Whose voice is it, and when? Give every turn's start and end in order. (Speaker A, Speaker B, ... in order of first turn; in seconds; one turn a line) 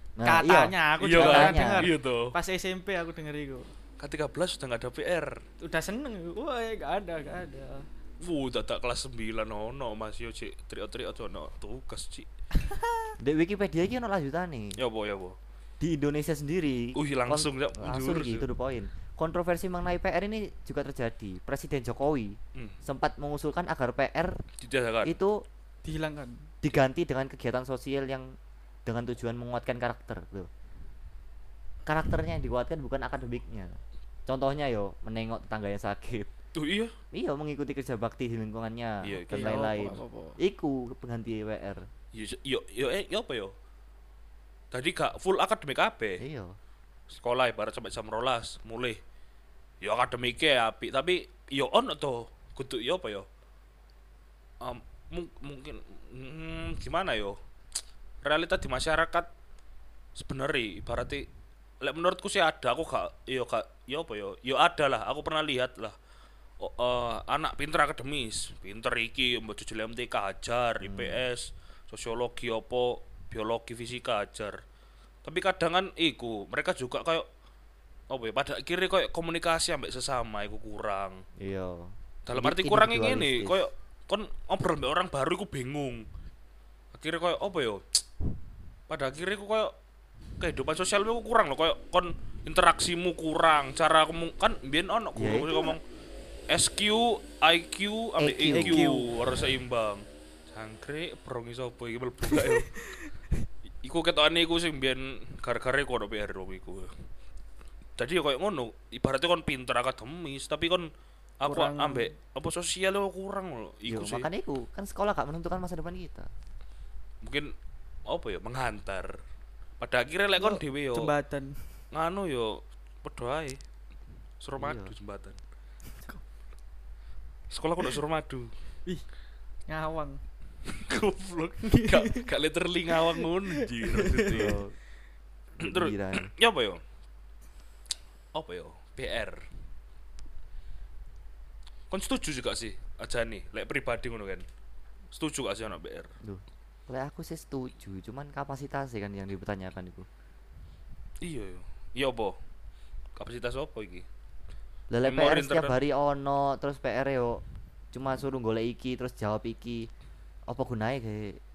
Speaker A: 0.2-1.9
Speaker B: 0.2-3.7
Speaker C: 1.0-2.3
Speaker C: 4.0-5.4
Speaker B: 5.6-7.9
Speaker C: 8.2-12.3
Speaker B: 12.6-13.1
Speaker A: 13.2-14.8
Speaker C: 14.8-15.4
Speaker A: 15.8-24.4
Speaker C: 16.9-18.4
Speaker C: 24.6-25.1
Speaker A: 25.0-25.4
Speaker B: 25.8-26.4
Speaker A: 26.6-30.5
Speaker A: 31.9-36.3
Speaker C: 36.5-36.9
Speaker A: 37.1-41.9
Speaker C: 39.0-40.0
Speaker B: 39.2-40.4
Speaker C: 42.1-43.5
Speaker C: 44.7-46.2
Speaker A: 46.2-46.6
Speaker C: 47.1-49.0
Speaker C: 49.8-53.3
Speaker C: 54.6-57.4
Speaker C: 58.2-59.3
Speaker C: 60.1-61.2
Speaker C: 61.8-66.0
Speaker C: 66.6-74.6
Speaker A: 70.8-71.2
Speaker C: 75.2-77.3
Speaker C: 78.1-81.2
Speaker A: 81.4-83.7
Speaker C: 82.2-86.1
Speaker C: 86.9-88.0
Speaker C: 88.9-89.7
Speaker C: 90.4-95.8
Speaker A: 95.1-95.8
Speaker C: 96.5-102.8
Speaker A: 98.2-98.9
Speaker B: 98.5-99.1
Speaker B: 102.3-103.1
Speaker C: 103.8-106.9
Speaker C: 108.0-110.9
Speaker C: 111.4-114.3
Speaker B: 111.5-112.1
Speaker A: 113.9-116.3
Speaker C: 117.2-117.5
Speaker C: 118.1-119.2
Speaker C: 119.8-121.1
Speaker B: 120.4-121.7
Speaker C: 121.9-123.6
Speaker C: 124.4-125.4
Speaker A: 124.6-124.9
Speaker C: 127.5-128.5
Speaker B: 129.7-130.2
Speaker C: 130.7-134.6
Speaker B: 131.7-132.3
Speaker B: 133.1-134.4
Speaker A: 134.3-134.7
Speaker A: 135.6-136.3
Speaker C: 135.6-136.8
Speaker C: 138.3-139.4
Speaker C: 141.9-144.4
Speaker C: 145.1-146.1
Speaker A: 146.2-150.1
Speaker C: 151.2-152.4
Speaker C: 153.2-154.1
Speaker A: 154.9-159.9
Speaker C: 155.0-155.8
Speaker A: 160.5-161.4